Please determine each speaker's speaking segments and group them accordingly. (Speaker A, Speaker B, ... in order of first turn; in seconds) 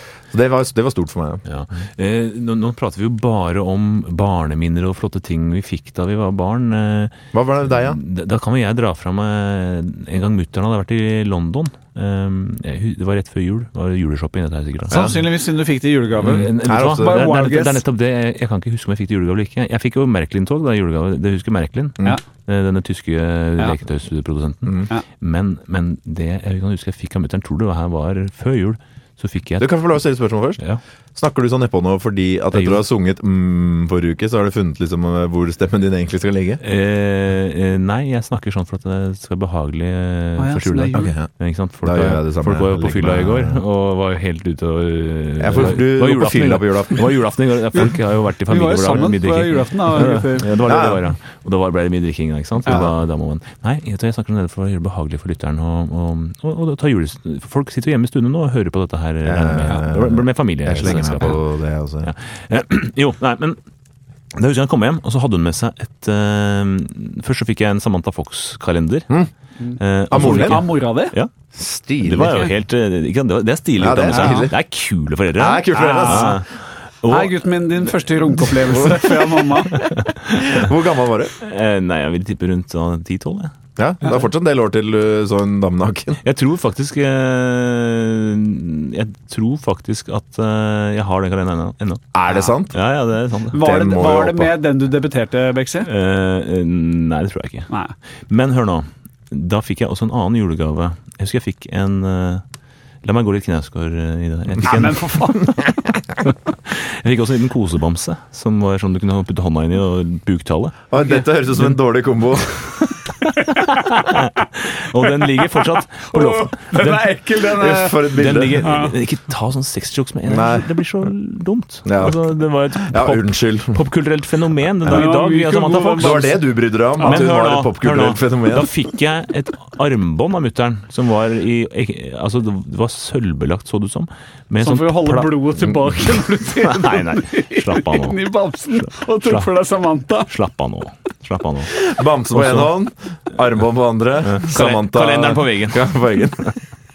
Speaker A: 0.3-1.4, 7.3-8.0, 14.9-15.2, 16.5-17.2, 29.6-30.6, 31.1-36.6, 40.9-41.3, 41.8-43.6, 45.4-47.1, 50.6-51.1, 52.6-52.9, 59.2-62.1, 70.1-70.6, 71.5-72.5, 73.8-74.5, 75.3-76.4, 78.7-79.1, 80.4-81.3, 83.8-86.2, 92.1-92.8, 93.5-94.5, 110.9-112.6, 117.5-118.7, 120.2-120.7, 121.8-122.2, 122.8-123.8, 126.0-128.7, 141.7-146.6
Speaker B: 1.4-15.2, 16.2-29.7, 32.5-32.8, 36.6-61.4, 62.0-63.6, 64.3-69.1, 69.8-71.3, 72.0-76.5, 77.0-77.3, 79.7-80.7, 81.4-83.5, 86.2-92.2, 92.7-93.6, 95.8-97.7, 98.3-102.4, 103.0-110.8, 113.3-117.2, 118.1-126.3, 127.0-135.4, 136.5-138.2, 138.8-139.5, 140.3-141.8, 142.3-142.7, 144.2-146.5
Speaker C: 14.9-17.8, 40.4-41.1, 48.5-50.6, 69.6-71.1, 75.7-76.4, 77.0-79.8, 93.5-95.9, 104.6-105.7, 115.5-118.9, 124.8-126.4, 134.6-140.3